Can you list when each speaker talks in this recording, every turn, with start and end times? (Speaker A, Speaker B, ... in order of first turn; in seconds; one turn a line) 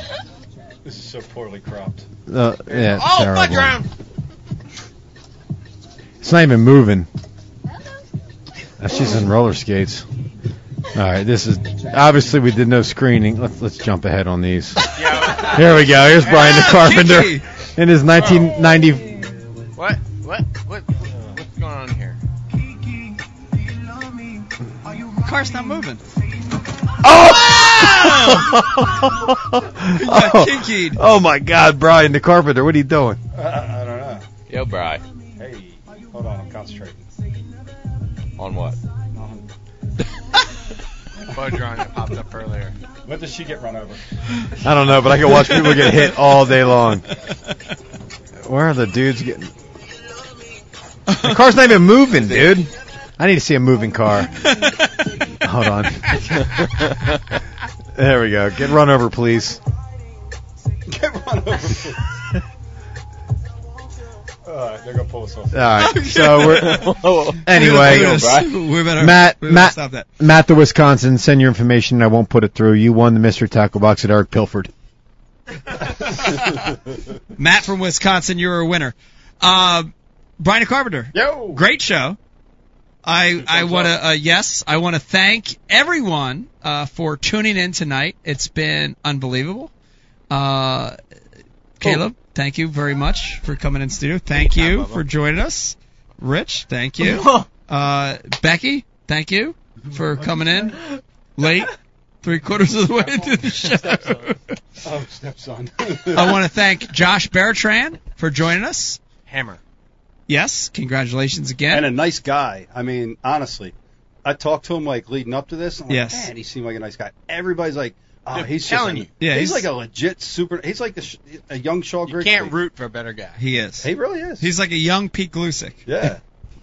Speaker A: 0.8-2.1
Speaker B: 2.3-3.8
Speaker C: 2.7-3.9
Speaker B: 6.2-7.1
Speaker B: 8.8-10.1
Speaker B: 10.9-19.3
Speaker C: 14.9-17.1
Speaker D: 16.6-17.4
Speaker C: 18.1-18.5
Speaker C: 19.8-22.2
Speaker D: 25.2-26.0
Speaker B: 27.0-33.2
Speaker D: 27.9-28.3
Speaker D: 29.9-31.0
Speaker A: 33.3-34.2
Speaker E: 34.5-35.0
Speaker A: 35.4-37.0
Speaker E: 38.4-38.8
Speaker A: 39.1-39.4
Speaker C: 41.3-42.7
Speaker A: 43.0-44.0
Speaker B: 44.6-47.0
Speaker B: 48.4-49.5
Speaker D: 51.1-51.4
Speaker B: 51.2-54.5
Speaker E: 52.2-52.6
Speaker D: 54.4-54.9
Speaker B: 55.4-56.9
Speaker B: 57.9-59.6
Speaker A: 60.9-62.0
Speaker A: 64.5-65.9
Speaker B: 65.5-68.4
Speaker D: 65.8-70.1
Speaker E: 66.6-68.6
Speaker B: 69.0-74.7
Speaker D: 76.1-76.6
Speaker D: 77.4-82.2
Speaker A: 81.1-81.6
Speaker D: 83.0-89.7
Speaker A: 83.4-83.9
Speaker D: 90.3-91.0
Speaker D: 91.8-100.8
Speaker C: 94.3-95.0
Speaker C: 97.0-97.4
Speaker A: 99.8-100.7
Speaker D: 101.4-104.5
Speaker A: 104.8-106.4
Speaker D: 106.1-109.0
Speaker C: 109.3-109.6
Speaker D: 110.3-111.9
Speaker A: 111.7-113.7
Speaker A: 114.2-122.5
Speaker D: 115.9-116.3
Speaker C: 118.3-119.1
Speaker D: 119.2-119.7
Speaker C: 122.0-123.4
Speaker D: 123.4-125.8
Speaker A: 123.8-124.5
Speaker A: 125.8-126.2